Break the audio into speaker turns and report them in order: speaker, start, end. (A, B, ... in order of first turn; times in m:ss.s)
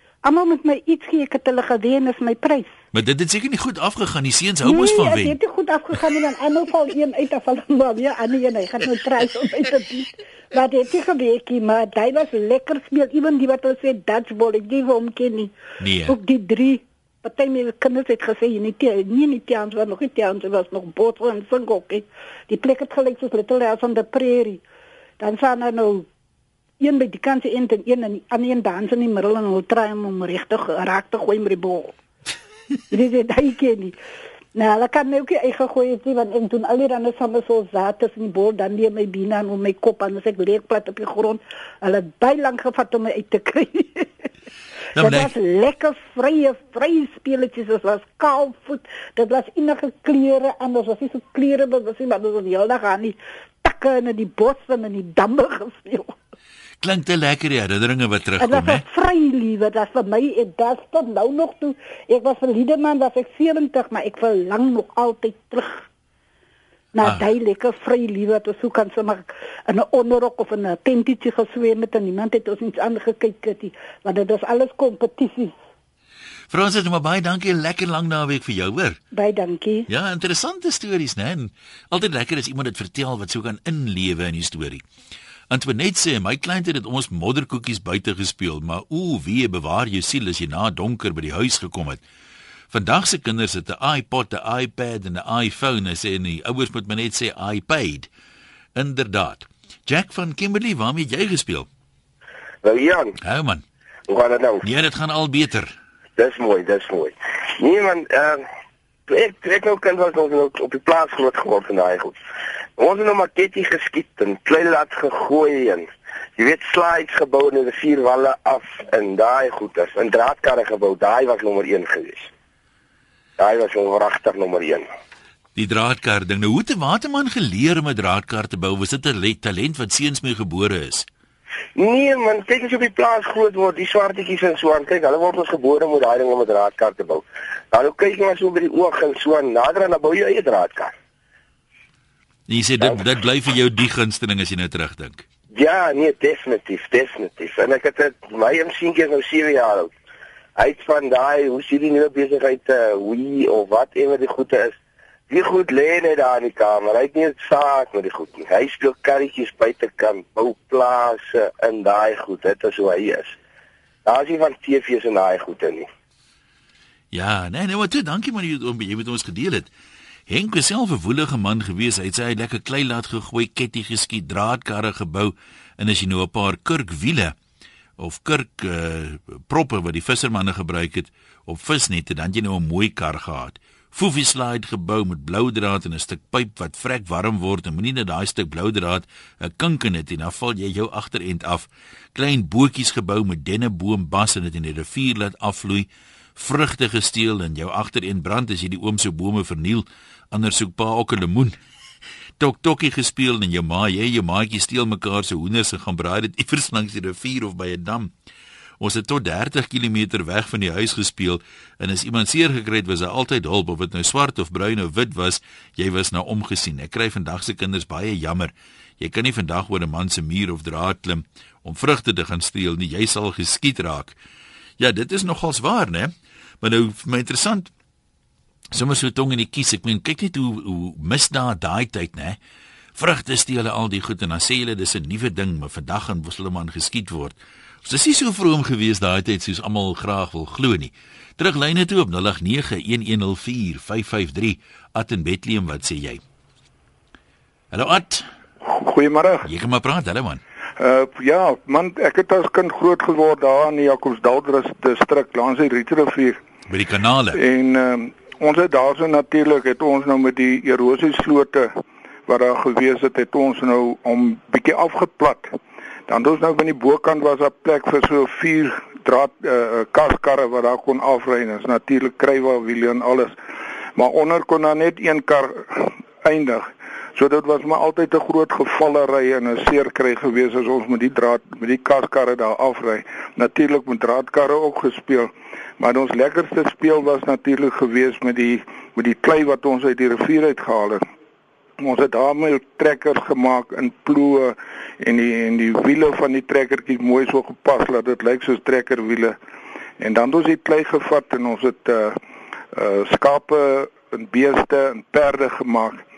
0:00.2-0:02.8 A
0:02.9-0:05.4 B
0:04.6-0:15.5 A
0:15.8-0:16.2 B
0:16.1-0:24.6 A
0:25.2-0:26.1 A
0:26.8-0:31.9 A
0:32.9-0:34.0 A
0:34.6-0:44.3 A
0:45.0-0:45.3 B
0:45.0-0:56.2 A
0:56.8-0:58.8 B
0:58.4-1:05.9 A
1:06.9-1:15.6 A
1:07.0-1:07.3 B
1:16.5-1:19.0 B
1:19.1-1:19.9 A
1:19.9-1:24.8 B
1:25.5-1:32.0 B
1:32.7-1:38.1 B
1:38.8-1:41.7 B
1:42.6-1:43.2 C
1:43.2-1:43.6 B
1:44.1-1:44.6 C
1:44.6-1:45.8 B
1:46.2-1:48.5 C
1:49.1-1:52.2 C
1:52.8-2:02.3 C
2:03.4-2:04.9 C
2:05.6-2:11.0 B
2:11.8-2:20.9 C
2:22.5-2:25.2 B
2:25.5-2:29.9 C
2:30.6-2:34.8 C
2:35.3-2:43.4 C
2:44.0-2:45.9 C
2:47.1-2:49.7 B
2:50.3-2:57.4 B
2:58.0-3:21.6 B
3:22.4-3:28.1 B
3:28.8-3:44.2 B
3:44.8-3:47.7 B
3:48.7-3:52.4 B
3:53.0-4:06.2 B
4:07.7-4:08.3 B
4:08.6-4:09.5 D
4:09.4-4:10.4 B
4:10.8-4:16.4 D
4:16.7-4:17.4 B
4:17.3-4:21.7 D
4:22.3-4:25.6 D
4:26.1-4:33.4 D
4:34.0-4:51.0 D
4:51.8-4:59.4 D
5:00.0-5:02.2 D
5:02.7-5:06.0 D